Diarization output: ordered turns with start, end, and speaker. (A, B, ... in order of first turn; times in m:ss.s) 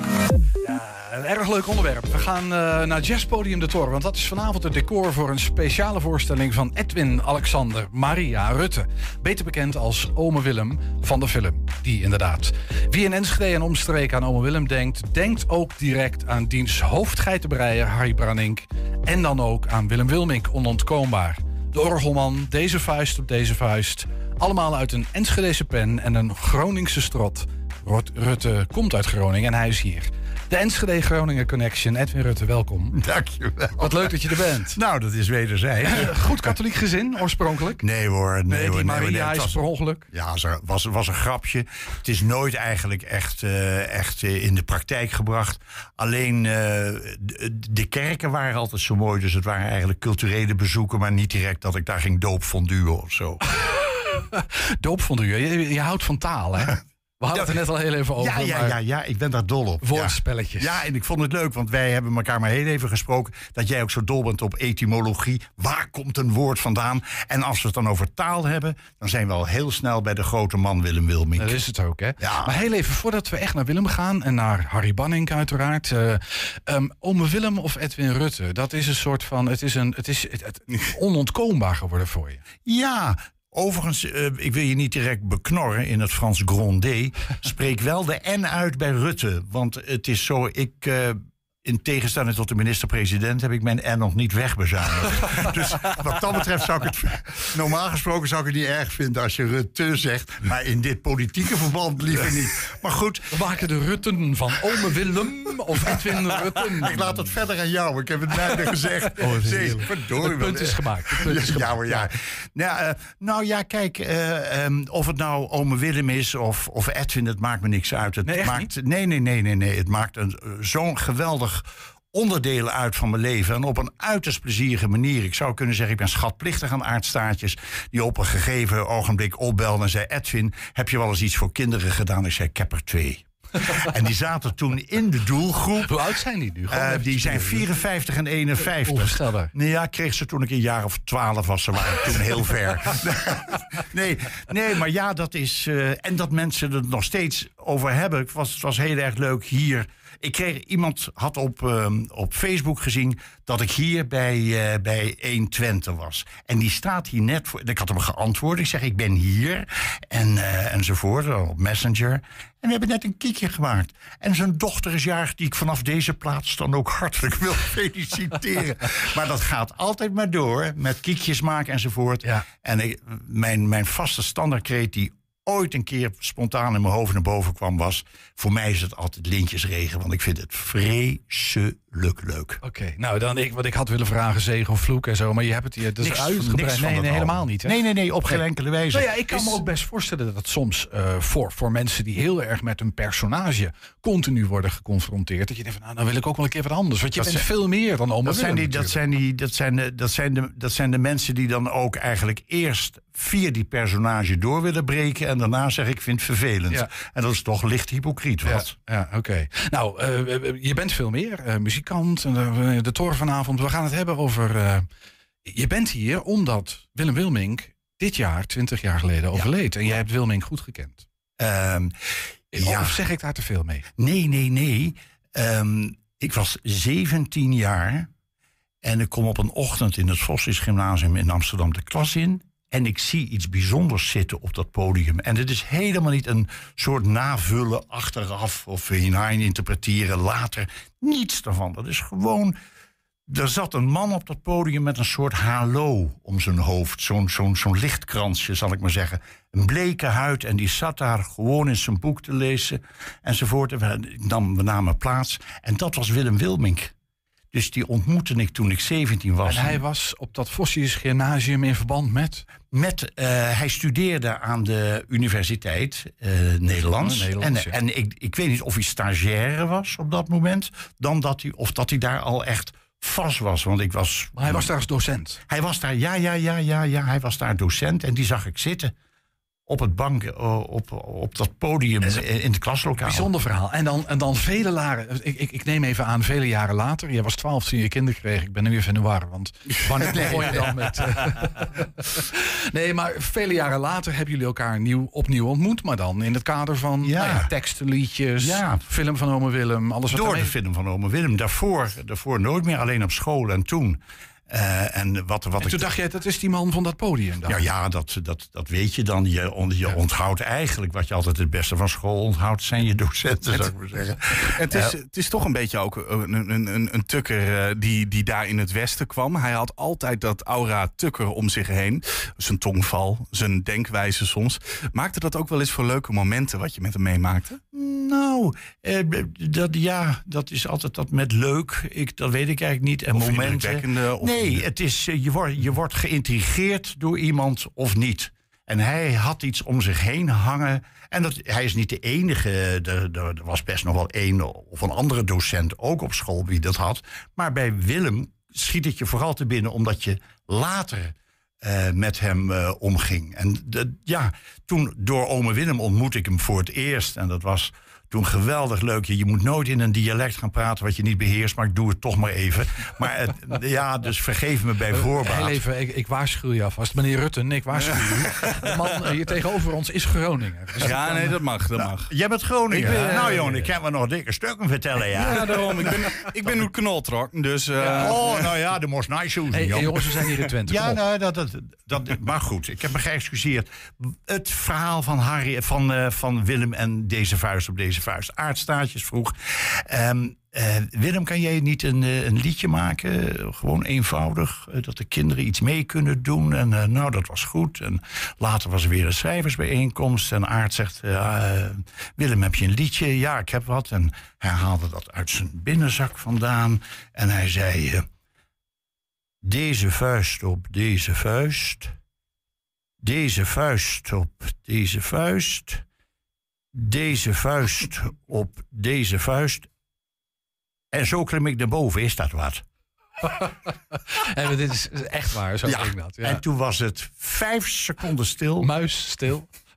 0:00.6-0:33.0 A
0:32.9-0:36.5 B
0:33.8-0:34.8 A
0:35.8-0:37.8 A
0:37.8-0:53.4 B
0:38.5-0:40.0 A
0:53.5-0:58.8 A
0:58.2-1:11.6 B
0:59.8-1:00.8 A
1:11.4-1:22.4 A
1:12.2-1:12.5 B
1:22.6-1:43.4 B
1:43.3-1:47.3 A
1:45.8-2:16.1 B
1:49.1-1:52.1 A
1:58.2-1:58.7 A
2:15.8-2:17.7 A
2:16.7-3:02.6 B
2:18.6-2:19.5 A
3:02.6-3:08.4 A
3:06.0-3:09.6 B
3:08.9-3:19.0 A
3:17.2-3:17.4 B
3:18.2-3:28.7 B
3:28.4-3:34.9 A
3:35.4-3:41.0 A
3:41.4-3:41.9 B
3:42.5-3:43.8 A
3:42.5-3:43.0 B
3:44.0-3:48.1 B
3:48.8-4:02.6 B
4:03.3-4:16.9 B
4:17.5-4:19.8 B
4:19.4-4:22.4 A
4:22.7-4:34.7 B
4:27.0-4:27.8 A
4:34.4-4:35.4 A
4:35.5-4:38.9 B
4:39.7-4:43.3 B
4:43.0-5:00.5 A
4:50.0-4:50.9 B
4:57.0-4:57.5 B
4:58.4-4:58.8 B
5:00.1-5:05.9 B
5:05.6-5:07.6 A
5:07.4-5:14.9 B
5:14.5-5:27.6 C
5:27.7-6:05.6 B
5:33.1-5:34.6 C
6:04.9-6:11.4 A
6:10.8-6:12.1 C
6:11.8-6:16.1 B
6:12.7-6:13.7 A
6:15.2-6:18.5 C
6:15.2-6:16.6 A
6:17.8-6:18.2 A
6:17.9-6:48.0 B
6:19.5-6:21.0 A
6:49.4-6:51.9 B
6:53.0-6:55.8 B
6:56.7-6:59.7 B
7:00.9-7:02.6 B
7:03.2-7:06.4 A
7:05.6-7:08.7 B
7:08.6-7:09.5 A